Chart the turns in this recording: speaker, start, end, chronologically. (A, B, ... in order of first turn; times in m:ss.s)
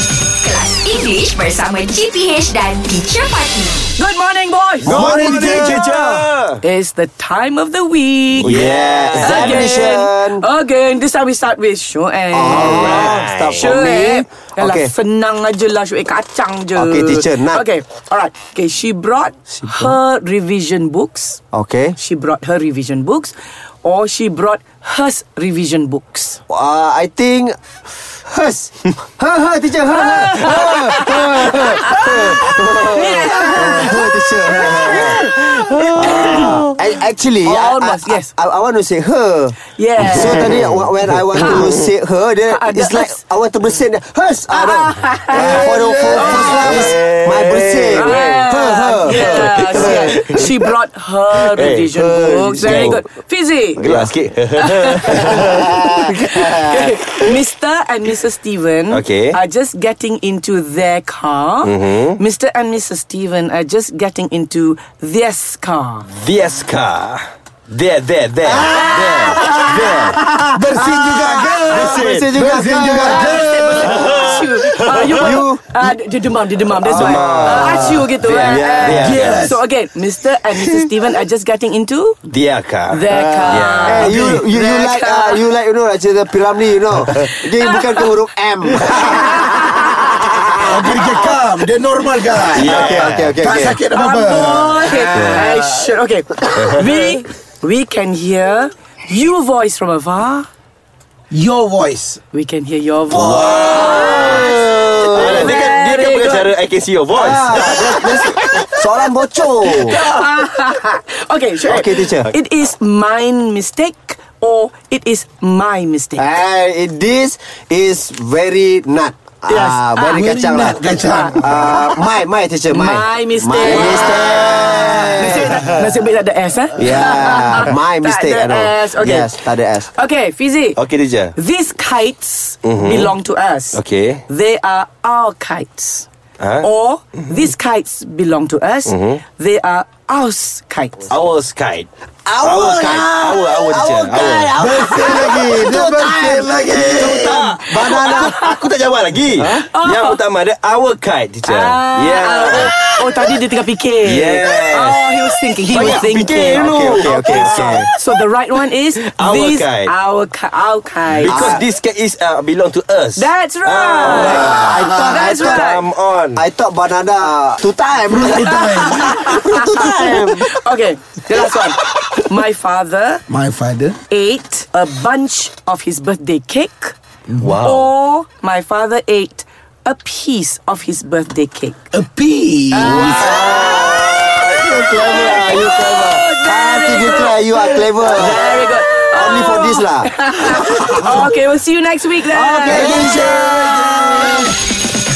0:00.4-0:03.8 A
0:04.0-0:05.5 B
0:04.8-0:06.3 C
0:04.8-0:06.6 D
0:06.6-0:08.6 B
0:08.4-0:09.8 D
0:08.4-0:10.4 E
0:09.2-0:21.4 B
0:12.3-0:14.9 E
0:12.5-0:13.7 D
0:16.8-0:17.7 E
0:19.6-0:20.0 E
0:21.5-0:22.0 E
0:22.0-0:26.4 B
0:26.5-0:27.6 E
0:28.2-0:35.3 E
0:29.9-0:36.6 B
0:35.9-0:50.3 E
0:37.4-0:38.3 B
0:39.8-0:40.5 B
0:41.3-0:41.7 B
0:42.5-0:43.2 B
0:44.5-0:47.0 B
0:45.3-0:46.8 C
0:46.5-0:48.4 D
0:48.0-0:53.9 B
0:49.0-0:50.5 D
0:51.5-0:52.0 D
0:52.0-0:53.0 E
0:52.6-0:53.0 D
0:53.8-0:55.8 D
0:54.6-1:06.1 B
0:55.3-0:56.8 E
0:58.9-0:59.4 D
1:01.6-1:02.2 D
1:06.1-1:10.2 D
1:08.4-1:14.3 E
1:08.7-1:09.7 B
1:10.1-1:14.3 C
1:11.7-1:12.3 D
1:13.0-1:22.2 B
1:13.8-1:15.3 D
1:15.0-1:16.0 E
1:16.8-1:19.2 E
1:16.9-1:19.4 D
1:18.8-1:19.6 C
1:22.3-1:24.2 D
1:22.9-1:25.4 B
1:23.1-1:30.9 E
1:24.1-1:24.4 C
1:27.2-1:28.1 B
1:28.8-1:30.0 B
1:30.5-1:35.9 C
1:32.6-1:33.4 D
1:32.6-1:33.8 E
1:33.9-1:40.5 B
1:35.1-1:35.4 D
1:36.5-1:37.2 D
1:41.3-1:42.2 C
1:42.3-1:46.5 B
1:43.1-1:44.1 C
1:43.1-1:44.5 D
1:43.8-1:45.6 E
1:45.1-1:48.0 D
1:47.1-1:50.0 E
1:48.0-1:48.8 B
1:49.6-1:56.3 B
1:51.6-1:52.3 E
1:56.2-2:05.6 E
1:59.5-2:00.1 B
2:00.1-2:01.6 C
2:01.0-2:01.3 B
2:02.7-2:10.8 B
2:03.6-2:04.4 D
2:03.8-2:05.9 C
2:06.8-2:09.9 E
2:10.8-2:11.3 D
2:11.3-2:16.1 B
2:12.6-2:13.1 D
2:13.7-2:14.2 D
2:16.4-2:16.7 D
2:16.6-2:21.1 B
2:18.9-2:19.2 D
2:21.1-2:21.9 D
2:22.2-2:28.4 E
2:22.4-2:24.5 D
2:24.5-2:27.5 C
2:26.9-2:32.9 D
2:27.7-2:28.6 B
2:29.5-2:30.2 B
2:31.5-2:41.5 B
2:34.0-2:35.1 D
2:35.7-2:37.9 D
2:35.7-2:37.9 E
2:38.9-2:39.9 D
2:41.1-2:44.6 D
2:41.2-2:41.6 E
2:43.2-2:45.8 B
2:44.0-2:45.8 E
2:44.1-2:45.3 C
2:45.2-2:46.4 D
2:46.3-2:50.5 E
2:48.1-2:50.3 C
2:48.8-2:53.2 B
2:53.3-2:54.0 C
2:54.1-2:57.0 B
2:57.4-2:57.9 D
2:57.6-3:01.8 B
3:01.9-3:03.8 C
3:02.7-3:13.4 B
3:02.8-3:08.5 E
3:09.1-3:10.2 E
3:10.8-3:11.1 C
3:12.3-3:14.5 C
3:12.7-3:14.2 E